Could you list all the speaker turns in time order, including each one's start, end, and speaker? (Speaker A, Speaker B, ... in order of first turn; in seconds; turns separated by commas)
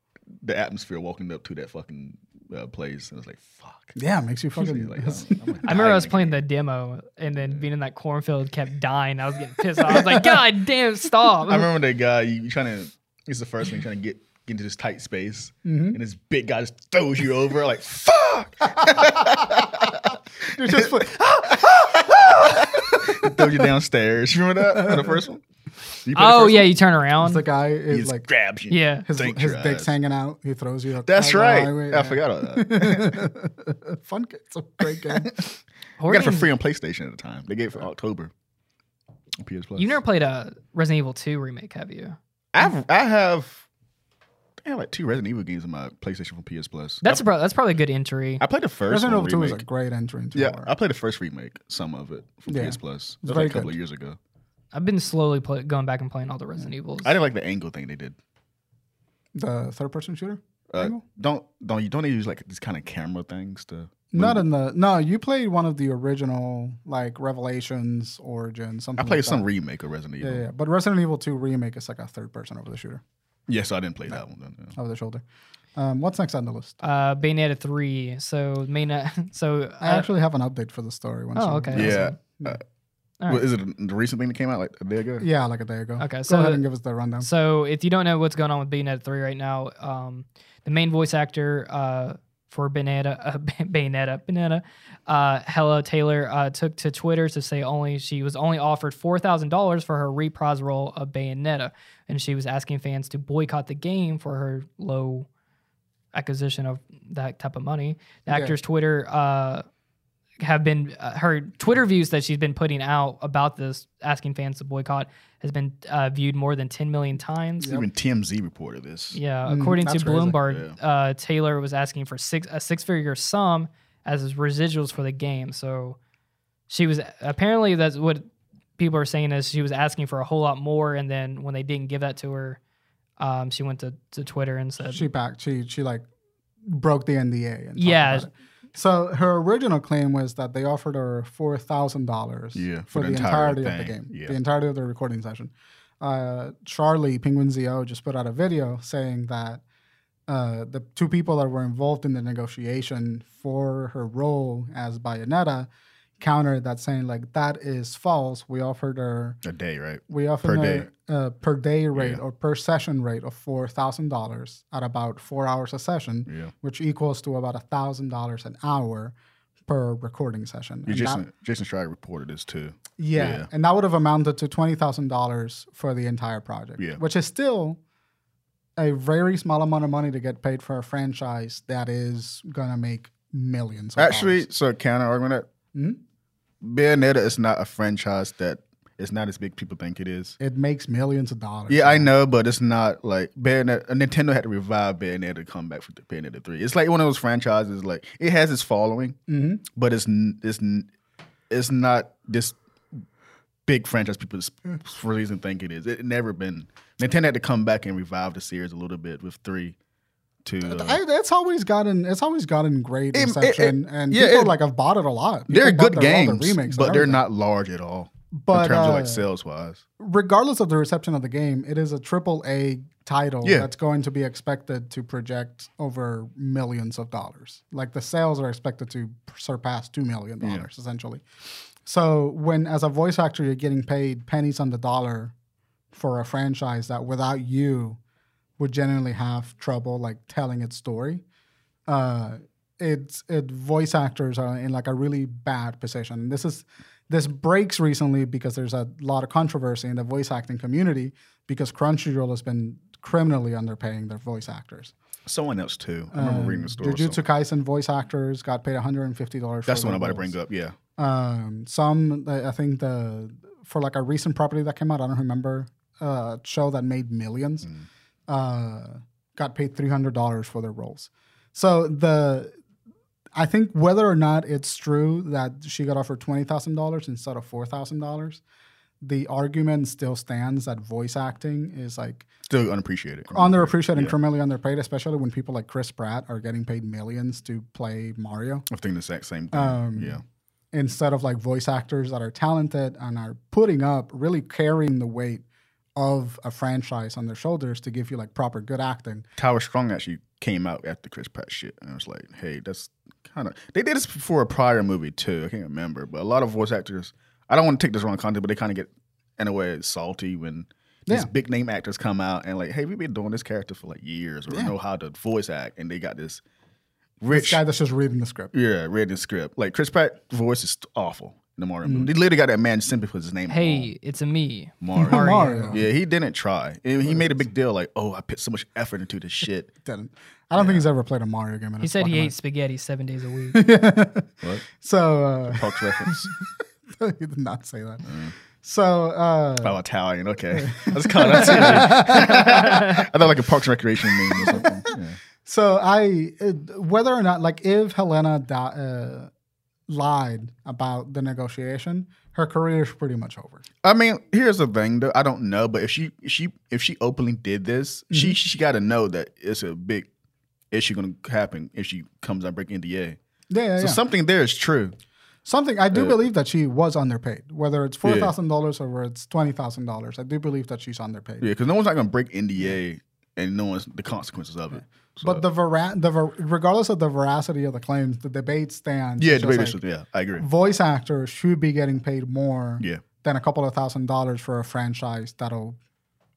Speaker A: 0.4-4.0, Speaker B: 4.0-5.4, Speaker A: 4.6-6.4, Speaker C: 5.7-11.7, Speaker B: 9.9-10.3, Speaker A: 11.5-25.4, Speaker B: 15.7-16.0, Speaker B: 18.9-19.9, Speaker B: 20.6-23.7, Speaker B: 24.7-25.2, Speaker A: 26.0-26.8, Speaker C: 26.1-27.4, Speaker B: 27.2-28.3, Speaker A: 27.9-30.0, Speaker C: 28.7-29.1, Speaker B: 29.1-35.4, Speaker A: 31.1-33.2, Speaker A: 34.9-35.5, Speaker C: 36.0-36.5, Speaker A: 36.1-38.3, Speaker A: 39.4-40.0, Speaker C: 39.8-42.2, Speaker A: 42.5-43.6, Speaker A: 44.6-47.2, Speaker C: 47.0-48.4, Speaker A: 48.4-49.6, Speaker B: 48.9-50.7, Speaker A: 50.4-54.2, Speaker B: 52.5-53.7, Speaker C: 54.7-57.2, Speaker A: 57.0-58.2, Speaker B: 59.4-61.0, Speaker A: 60.7-64.5, Speaker B: 64.1-69.5, Speaker A: 69.0-70.5, Speaker B: 70.2-73.0, Speaker A: 73.5-74.8, Speaker B: 74.8-75.2, Speaker B: 75.8-76.8, Speaker C: 76.8-80.1, Speaker B: 79.8-82.6, Speaker C: 81.3-82.2, Speaker A: 81.7-82.6, Speaker A: 83.3-85.3, Speaker B: 85.2-87.3, Speaker C: 86.0-86.6, Speaker C: 87.2-105.3, Speaker C: 106.1-109.7, Speaker B: 108.3-108.6, Speaker C: 110.4-117.8, Speaker A: 117.6-119.2, Speaker C: 119.1-126.0, Speaker B: 119.5-120.4, Speaker A: 120.5-120.8, Speaker C: 126.7-128.3, Speaker C: 128.8-132.6, Speaker C: 133.2-135.1, Speaker B: 134.9-136.1, Speaker B: 136.7-149.6, Speaker C: 137.8-138.3, Speaker A: 142.6-144.4, Speaker B: 150.3-155.7, Speaker B: 156.2-159.4, Speaker A: 159.4-160.9, Speaker B: 160.1-169.2, Speaker A: 161.9-162.2, Speaker A: 166.3-166.5, Speaker B: 169.7-171.2, Speaker A: 170.9-173.5, Speaker B: 173.0-177.8, Speaker B: 178.8-184.5, Speaker A: 184.0-185.5, Speaker B: 185.7-186.0, Speaker A: 186.6-190.3, Speaker B: 190.4-192.1, Speaker A: 191.7-199.2, Speaker B: 199.3-199.6, Speaker A: 199.8-200.9, Speaker A: 201.5-202.6, Speaker A: 203.7-209.8, Speaker A: 210.4-211.0, Speaker B: 210.6-217.2, Speaker A: 213.1-214.6, Speaker A: 215.5-219.8, Speaker B: 218.4-219.3, Speaker B: 220.0-231.2, Speaker A: 230.4-230.7, Speaker B: 231.8-235.3, Speaker B: 235.9-238.0, Speaker B: 238.6-241.2, Speaker B: 241.9-254.9, Speaker A: 255.3-257.2, Speaker B: 256.1-260.4, Speaker A: 259.7-260.8, Speaker B: 261.0-267.7, Speaker B: 268.3-272.5, Speaker B: 273.4-278.4, Speaker B: 279.0-282.3, Speaker A: 282.5-284.1, Speaker B: 283.3-288.7, Speaker A: 288.7-290.2, Speaker B: 289.5-290.2, Speaker B: 290.7-295.4, Speaker B: 296.0-299.3, Speaker A: 299.4-316.4, Speaker B: 314.5-314.7, Speaker A: 317.2-317.6, Speaker B: 317.3-318.5, Speaker A: 318.5-323.9, Speaker B: 321.8-322.1, Speaker C: 323.5-325.8, Speaker A: 324.8-329.7, Speaker B: 324.9-325.9, Speaker B: 327.1-327.5, Speaker B: 329.9-332.3, Speaker A: 330.6-330.9, Speaker C: 331.8-333.6, Speaker B: 333.5-336.3, Speaker A: 335.5-336.4, Speaker B: 336.9-338.1, Speaker A: 338.1-338.3, Speaker B: 338.6-339.8, Speaker A: 339.6-345.2, Speaker B: 340.5-343.1, Speaker C: 342.4-342.9, Speaker B: 344.1-349.3, Speaker B: 349.9-353.6, Speaker A: 353.8-360.1, Speaker B: 358.1-358.4, Speaker A: 360.7-363.2, Speaker B: 363.5-364.0, Speaker A: 363.8-364.9, Speaker B: 365.4-371.5, Speaker A: 365.9-366.2, Speaker A: 368.0-368.3, Speaker A: 371.4-375.4, Speaker B: 375.2-379.8, Speaker A: 379.2-380.5, Speaker B: 380.4-385.8